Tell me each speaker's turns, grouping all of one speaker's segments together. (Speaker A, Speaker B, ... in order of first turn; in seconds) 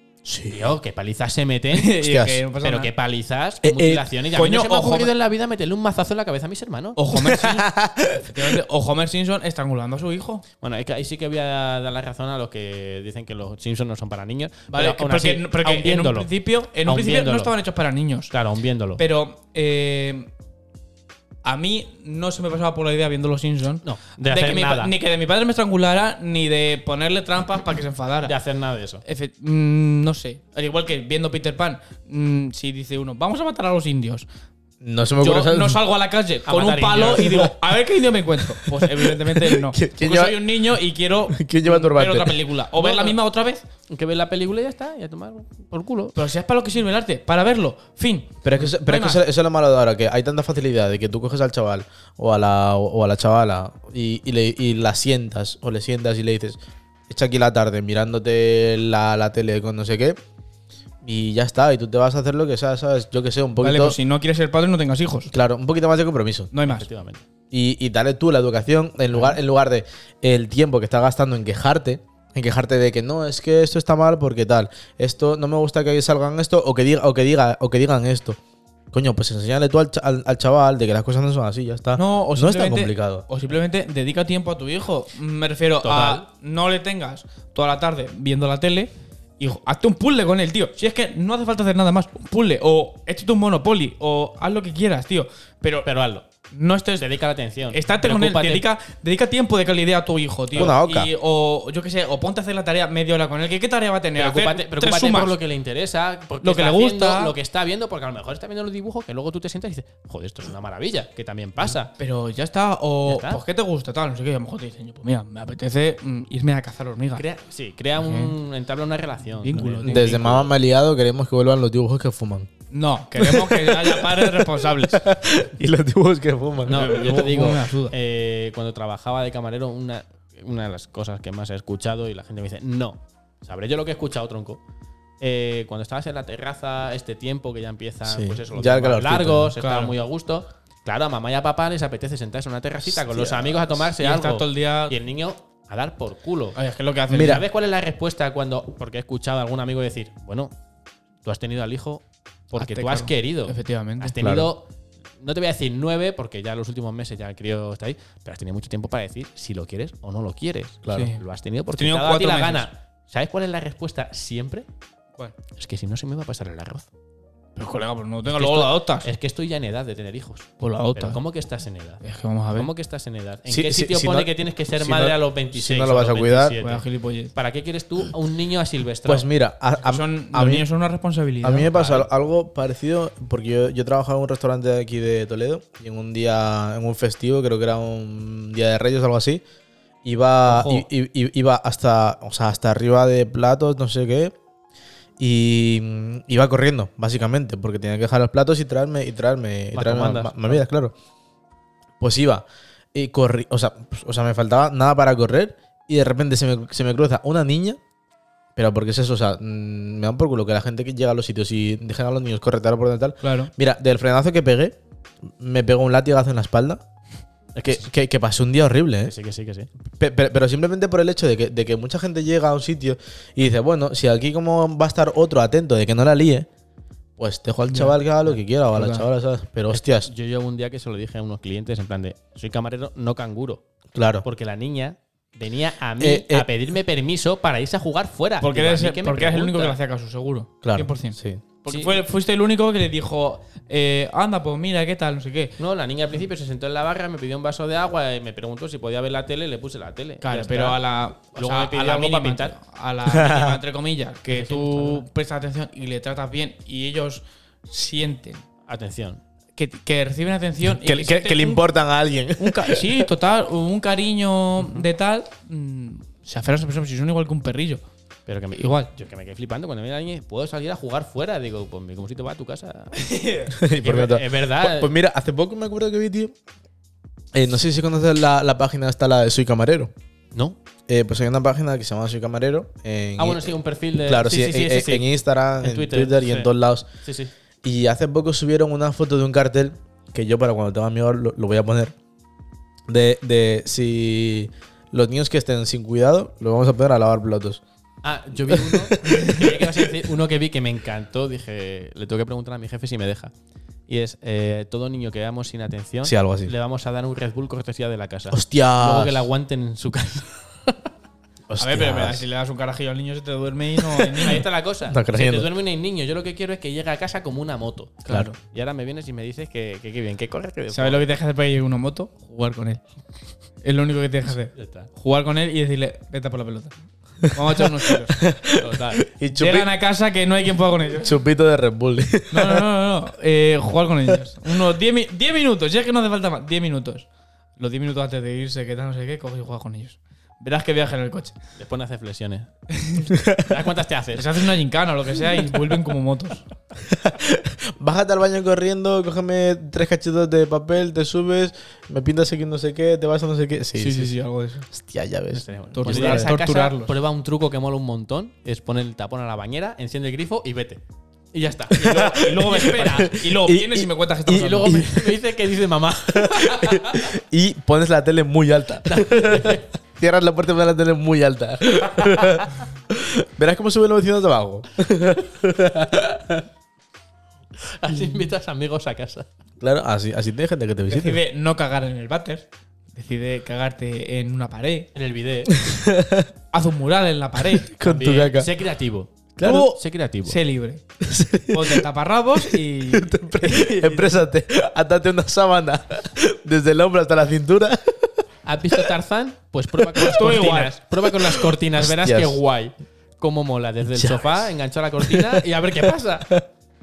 Speaker A: 0.2-0.8, 2.0-2.4, 3.6-4.1, 7.1-8.6, 34.8-35.8, 37.2-37.5, 38.6-40.5, 41.3-42.4, 48.4-60.2, 61.0-64.0, 65.3-66.5, 67.5-78.4, 78.9-83.2, 100.5-101.1, 119.8-122.5, 123.2-127.2, 138.1-139.5, 142.8-143.8, 147.1-147.4, 154.2-154.5, 160.8-161.1, 173.5-176.6, 179.0-180.7, 181.4-189.4, 190.0-194.3, 195.2-200.9, 202.0-207.8, 208.6-214.8, 215.4-216.8, 217.6-219.1, 219.9-226.5, 227.2-230.1, 233.9-234.2, 236.0-236.5, 240.6-241.4, 253.1-253.6, 260.6-263.1, 273.5-276.3, 277.3-279.9, 280.9-286.9, 287.6-291.9, 292.9-297.6, 298.5-300.0, 306.0-306.5, 308.3-309.3, 311.5-312.2, 314.9-315.5, 327.4-329.7, 331.0-332.6, 346.8-354.1, 354.7-356.3, 361.7-365.2, 366.1-376.4, 379.6-381.2, 385.6-386.3, 387.6-388.5, 389.4-389.7, 391.0-391.8, 392.4-398.2, 399.8-400.3, 401.0-402.4, 403.9-404.5, 405.0-406.4
Speaker B: 0.5-2.0, 2.6-7.0, 10.6-16.3, 16.8-17.5, 18.3-19.0, 23.8-24.9, 28.2-29.0, 36.5-37.5, 42.8-43.2, 43.9-46.1, 66.6-67.2, 85.8-86.2, 95.8-96.2, 97.0-98.7, 104.2-111.9, 113.0-113.4, 117.2-120.5, 126.7-134.6, 135.2-146.6, 147.1-150.5, 151.2-154.7, 155.2-164.7, 165.5-166.9, 168.3-172.0, 172.5-179.3, 199.7-200.6, 219.0-219.7, 229.7-233.6, 234.2-239.8, 241.7-242.0, 245.6-250.8, 251.3-252.6, 254.3-255.0, 258.7-259.2, 264.6-264.9, 268.3-273.1, 273.6-274.9, 283.2-285.1, 285.6-287.3, 298.0-303.3, 303.9-310.9, 314.1-321.1, 324.6-324.9, 328.6-329.0, 341.6-342.5, 343.3-344.3, 355.3-360.8, 361.3-363.2, 364.3-367.1, 368.9-369.7, 377.7-379.2, 384.9-385.5, 387.8-390.3, 398.4-406.4
Speaker C: 1.7-2.9, 4.3-5.1, 7.0-10.4, 14.7-18.3, 19.0-20.3, 21.4-28.3, 29.0-34.2, 35.2-43.6, 46.1-49.2, 63.6-65.3, 66.5-66.9, 82.0-95.9, 96.5-97.1, 97.7-105.3, 106.4-107.3, 112.0-117.2, 118.0-118.3, 119.4-120.2, 122.7-125.0, 126.7-127.9, 139.6-139.9, 144.0-144.9, 146.6-147.4, 152.6-154.1, 160.9-161.2, 161.7-162.7, 167.6-169.1, 170.6-171.2, 172.0-172.7, 176.6-177.3, 179.8-182.0, 190.5-190.8, 213.2-213.5, 227.7-227.9, 228.7-229.0, 238.4-245.6, 250.2-258.4, 259.6-261.6, 262.4-267.8, 268.5-268.9, 272.9-273.5, 311.6-314.4, 318.1-318.4, 320.7-322.8, 323.6-326.7, 327.2-328.2, 329.3-331.2, 332.3-341.3, 342.7-343.1, 344.1-346.4, 353.8-354.7, 355.7-356.9, 361.9-364.8, 380.9-384.9, 386.5-388.0, 389.4-390.8, 391.5-394.2, 400.0-400.8